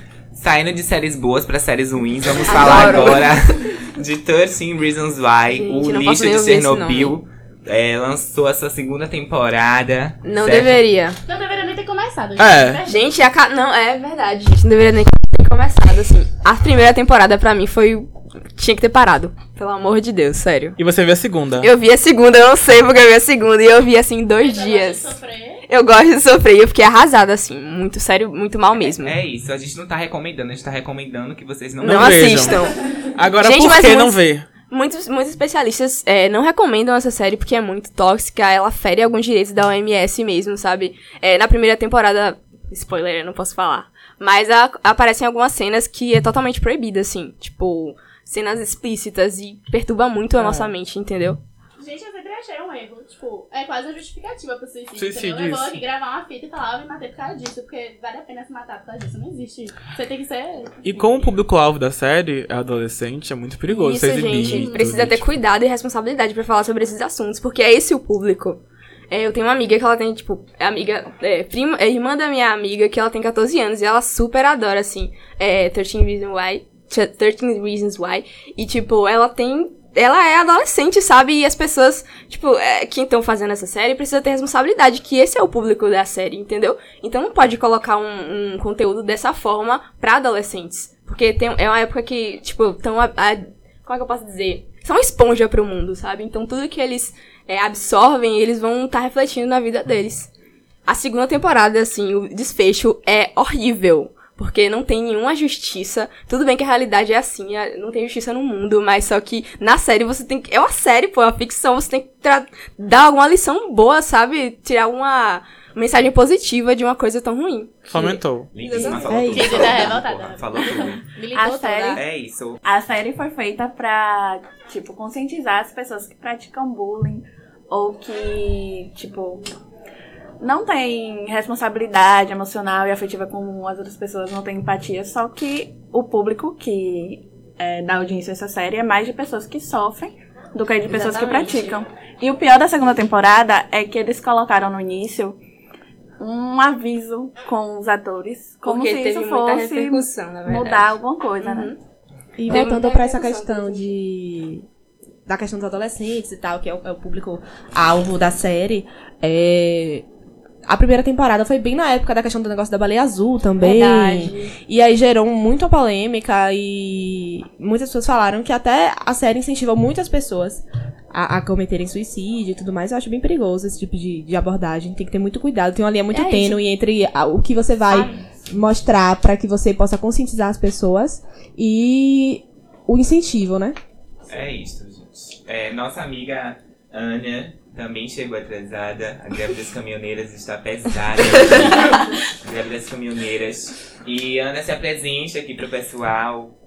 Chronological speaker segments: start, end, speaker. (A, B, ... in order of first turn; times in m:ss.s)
0:00.3-0:10.8 A
0:02.4-0:03.6 B
0:05.5-0:07.2 B
0:10.2-0:11.2 B
0:11.3-0:13.0 C
0:12.4-0:12.8 D
0:12.9-0:20.8 B
0:20.8-0:21.7 D
0:21.6-0:25.1 B
0:24.4-0:25.6 C
0:25.7-0:29.1 B
0:28.8-0:32.6 A
0:31.8-0:34.4 D
0:31.8-0:32.8 B
0:33.4-0:51.4 B
0:50.4-0:50.7 D
0:51.8-1:00.8 C
0:55.0-0:55.8 D
1:00.8-1:05.3 D
1:03.7-1:40.3 B
1:40.8-1:58.2 B
1:57.9-1:58.5 D
1:58.5-2:01.0 A
1:58.6-1:59.9 E
1:59.3-2:01.0 C
2:00.8-2:02.0 E
2:01.4-2:01.8 F
2:01.9-2:02.6 A
2:02.6-2:09.4 F
2:10.4-2:25.4 F
2:20.9-2:21.8 B
2:26.2-2:31.7 F
2:28.6-2:31.8 B
2:32.4-2:34.6 E
2:32.5-2:33.9 B
2:35.2-2:40.0 E
2:40.7-3:03.8 E
2:43.6-2:44.5 B
2:56.1-2:56.6 B
2:57.9-2:58.3 A
3:04.3-3:16.5 A